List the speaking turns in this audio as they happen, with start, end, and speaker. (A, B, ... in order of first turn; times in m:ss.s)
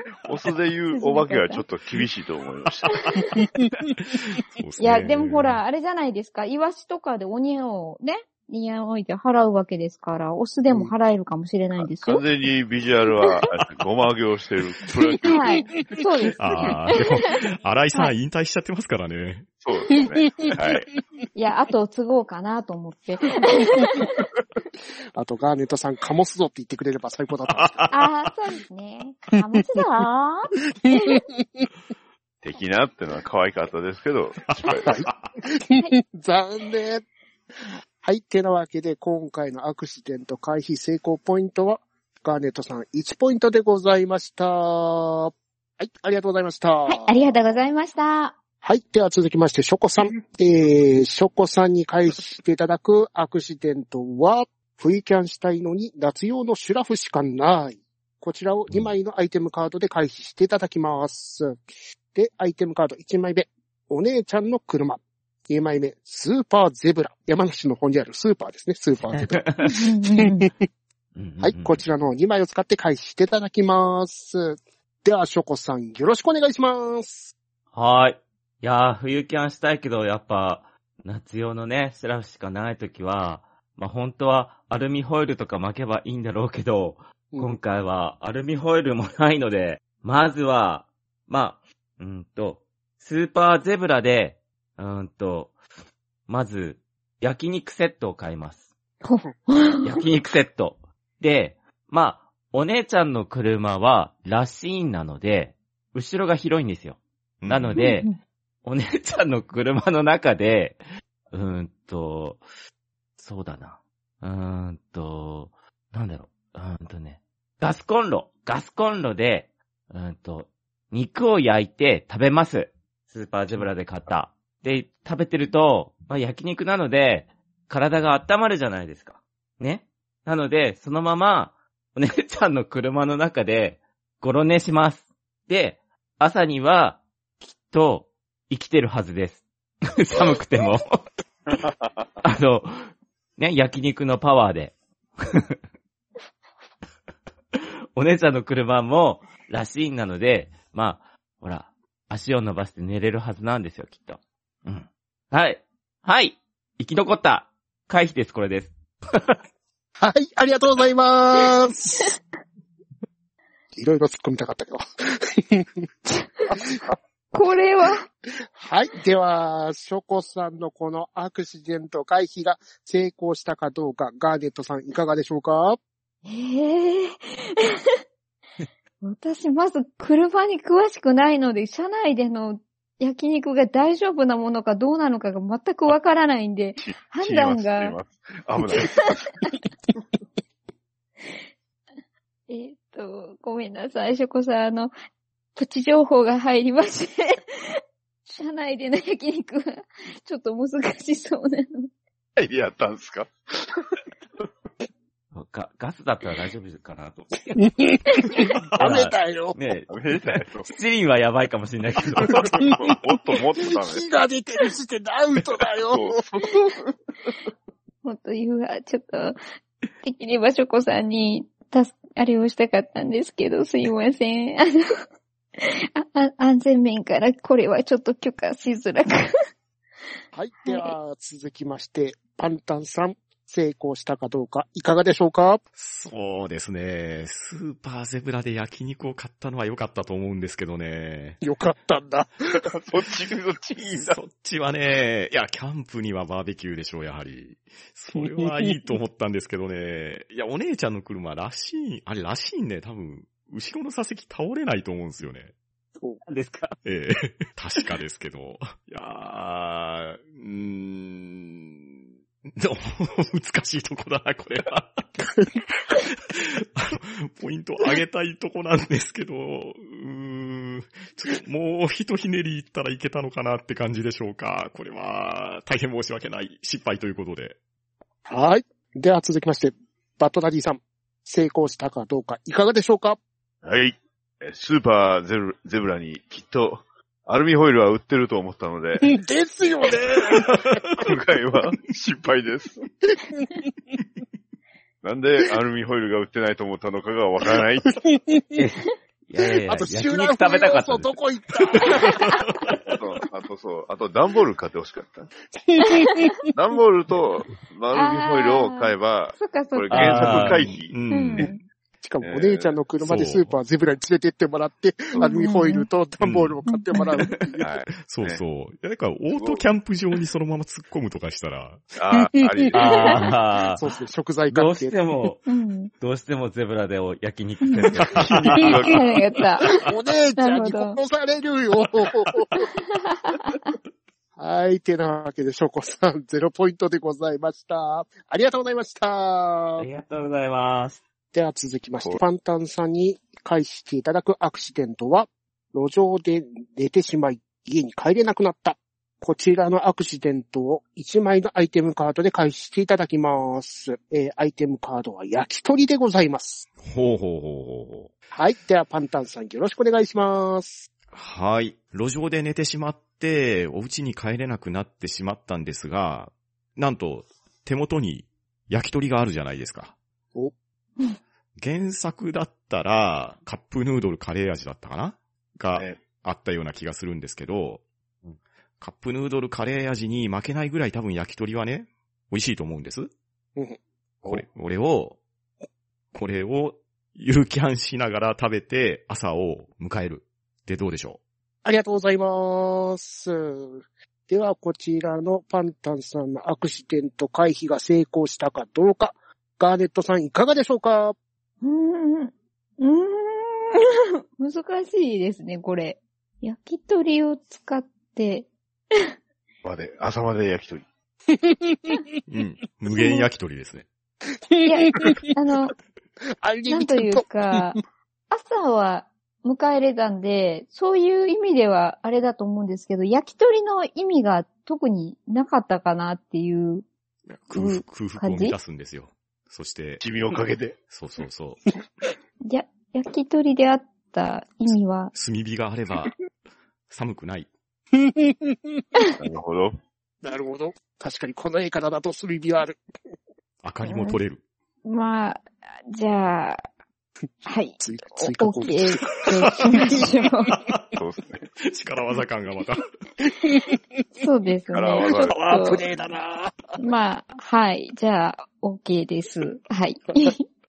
0:00.2-0:03.0 A
0:00.9-0:01.6 B
0:03.1-0:03.4 B
0:04.1-0:05.6 C
0:04.8-0:12.2 B
0:11.8-0:15.5 A
0:15.3-0:17.0 B
0:16.4-0:19.5 C
0:19.6-0:20.8 A
0:21.3-0:24.2 B
0:25.1-0:27.9 D
0:27.5-0:27.9 C
0:27.9-0:31.2 B
0:30.9-0:31.2 D
0:32.4-0:35.0 A
0:34.5-0:35.3 C
0:34.8-0:37.0 D
0:38.0-0:47.2 D
0:46.9-0:48.4 B
0:48.6-1:01.6 D
1:02.1-1:10.5 D
1:09.1-1:09.7 E
1:09.6-1:10.5 B
1:11.1-1:11.8 E
1:11.4-1:17.3 D
1:17.7-1:35.6 E
1:27.3-1:27.6 D
1:36.3-1:38.7 E
1:39.0-1:39.9 B
1:39.8-1:48.1 E
1:47.4-1:47.9 C
1:47.8-1:48.2 B
1:48.6-1:52.4 E
1:53.2-2:21.0 E
2:21.5-2:21.9 A
2:22.2-2:22.7 E
2:23.4-2:25.6 E
2:27.6-2:39.4 E
2:40.0-2:42.2 D
2:43.7-2:44.8 D
2:45.4-2:45.8 D
2:46.5-2:46.9 D
2:47.3-2:48.0 B
2:48.6-2:55.8 D
2:56.2-2:57.8 B
2:59.0-3:08.0 B
3:06.8-3:09.3 A
3:08.8-3:09.5 B
3:12.5-3:14.9 B
3:15.5-3:21.9 B
3:22.4-3:23.8 A
3:25.3-3:27.6 E
3:27.5-3:29.6 D
3:28.8-3:29.9 E
3:29.9-3:30.7 A
3:30.6-3:32.5 E
3:32.2-3:34.0 A
3:32.2-3:33.0 D
3:33.7-3:36.2 D
3:35.8-3:37.3 A
3:38.0-3:39.4 B
3:40.0-3:45.0 B
3:45.6-3:49.3 B
3:50.3-3:55.6 D
3:50.6-3:50.9 B
3:55.8-4:01.4 C
4:01.4-4:02.6 D
4:02.7-4:04.2 A
4:03.9-4:15.5 C
4:08.2-4:08.7 D
4:16.2-4:16.8 E
4:16.8-4:21.9 C
4:22.5-4:25.2 C
4:25.9-4:37.6 C
4:38.2-4:43.2 D
4:43.6-4:49.1 A
4:49.0-4:50.8 D
4:51.0-4:52.8 A
4:55.0-4:57.9 A
4:58.0-4:58.6 D
4:58.5-5:01.2 E
4:59.6-5:02.3 D
5:02.8-5:05.3 A
5:05.6-5:06.5 D
5:05.9-5:06.3 B
5:06.5-5:11.5 A
5:07.9-5:10.3 B
5:09.9-5:10.6 E
5:10.0-5:11.5 C
5:11.1-5:11.6 B
5:12.0-5:17.6 D
5:12.2-5:12.8 A
5:13.0-5:13.5 C
5:15.2-5:15.9 B
5:16.2-5:16.6 C
5:16.7-5:17.2 B
5:17.6-5:18.4 A
5:18.0-5:21.8 C
5:19.3-5:19.6 A
5:21.9-5:23.3 A
5:22.2-5:22.7 D
5:22.7-5:23.8 E
5:23.7-5:24.9 D
5:24.5-5:25.4 E
5:25.5-5:25.9 B
5:26.0-5:28.6 E
5:27.6-5:27.9 B
5:28.1-5:29.1 A
5:28.2-5:28.6 C
5:28.8-5:29.7 B
5:29.7-5:32.6 D
5:30.4-5:31.0 B
5:32.8-5:33.7 B
5:34.4-5:39.8 D
5:39.8-5:41.0 E
5:41.3-5:56.7 D
5:56.8-5:58.1 C
5:58.3-6:00.9 D
6:01.1-6:09.9 C
6:11.6-6:17.8 C
6:15.7-6:16.0 A
6:18.8-6:23.1 C
6:23.6-6:24.4 D
6:24.2-6:25.2 C
6:26.1-6:31.2 C
6:31.6-6:41.1 D
6:41.6-6:49.1 B
6:49.6-6:50.8 A
6:51.3-6:52.0 D
6:52.3-6:53.8 C
6:53.0-6:53.2 B
6:54.5-6:55.3 D
6:54.6-6:55.7 B
6:56.4-6:57.6 D
6:56.7-6:57.8 B
6:58.3-7:06.8 B
7:07.3-7:10.0 C
7:07.5-7:08.6 B
7:10.0-7:10.8 A
7:10.9-7:11.6 C
7:12.4-7:15.1 B
7:15.1-7:16.2 C
7:16.9-7:17.5 C
7:18.0-7:18.6 D
7:19.2-7:19.8 A
7:20.2-7:22.8 D
7:23.6-7:24.4 C
7:23.8-7:24.2 B
7:24.8-7:26.6 B
7:27.4-7:30.5 B
7:27.8-7:30.0 D
7:29.7-7:30.8 C
7:31.0-7:31.4 A
7:31.6-7:32.8 C
7:33.5-7:33.8 D
7:34.2-7:35.8 B
7:34.7-7:35.4 A
7:35.1-7:36.8 D
7:36.8-7:40.4 B